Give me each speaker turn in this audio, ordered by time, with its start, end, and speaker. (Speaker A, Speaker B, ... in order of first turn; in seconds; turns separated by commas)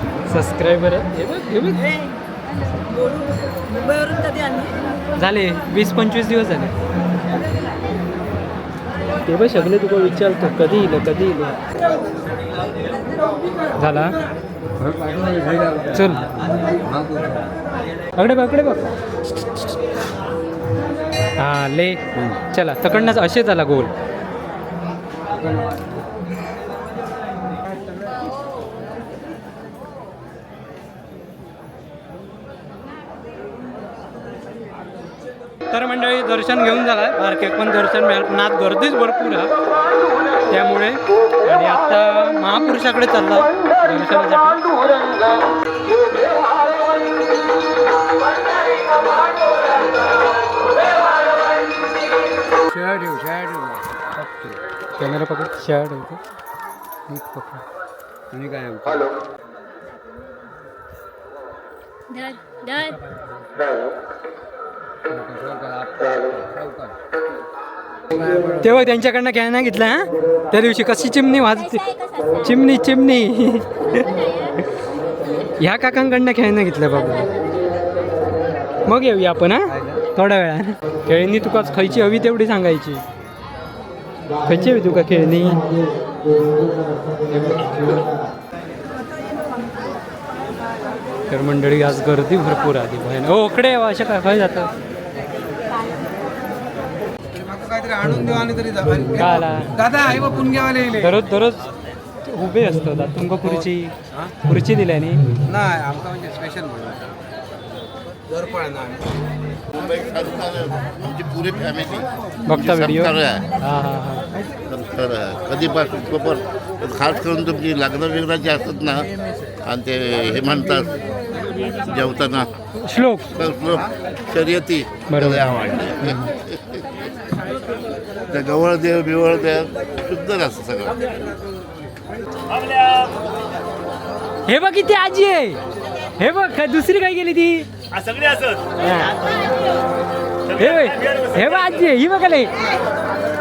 Speaker A: 0.3-1.9, Speaker A: 5.2-6.7, Speaker A: 9.2-11.6, Speaker A: 13.8-14.2, Speaker B: 14.8-17.5, Speaker A: 15.9-16.3, Speaker A: 18.1-18.8, Speaker A: 21.4-23.9, Speaker B: 25.3-26.0, Speaker A: 35.7-39.5, Speaker A: 40.5-44.6, Speaker B: 52.7-54.6, Speaker A: 55.0-56.2, Speaker A: 57.1-57.6, Speaker B: 58.3-59.1, Speaker C: 62.1-63.0, Speaker B: 65.1-67.0, Speaker B: 68.1-68.9, Speaker A: 68.6-71.9, Speaker C: 71.5-72.7, Speaker A: 72.4-74.1, Speaker C: 73.7-74.6, Speaker A: 75.6-77.3, Speaker C: 76.9-77.8, Speaker A: 78.9-83.0, Speaker B: 79.7-80.0, Speaker A: 84.4-85.6, Speaker A: 87.3-88.1, Speaker A: 91.3-94.7, Speaker D: 97.3-101.1, Speaker A: 99.1-99.7, Speaker A: 100.9-101.6, Speaker A: 102.2-105.2, Speaker D: 105.5-107.0, Speaker D: 108.3-109.0, Speaker E: 109.7-113.4, Speaker A: 112.5-114.2, Speaker E: 114.7-119.1, Speaker E: 119.6-120.9, Speaker E: 121.7-122.5, Speaker A: 122.8-123.3, Speaker E: 123.3-126.2, Speaker A: 125.1-126.3, Speaker E: 128.3-131.1, Speaker F: 132.5-133.1, Speaker A: 134.5-135.6, Speaker A: 136.2-137.7, Speaker F: 137.9-138.8, Speaker A: 138.8-139.2, Speaker F: 140.5-141.8, Speaker A: 140.5-142.5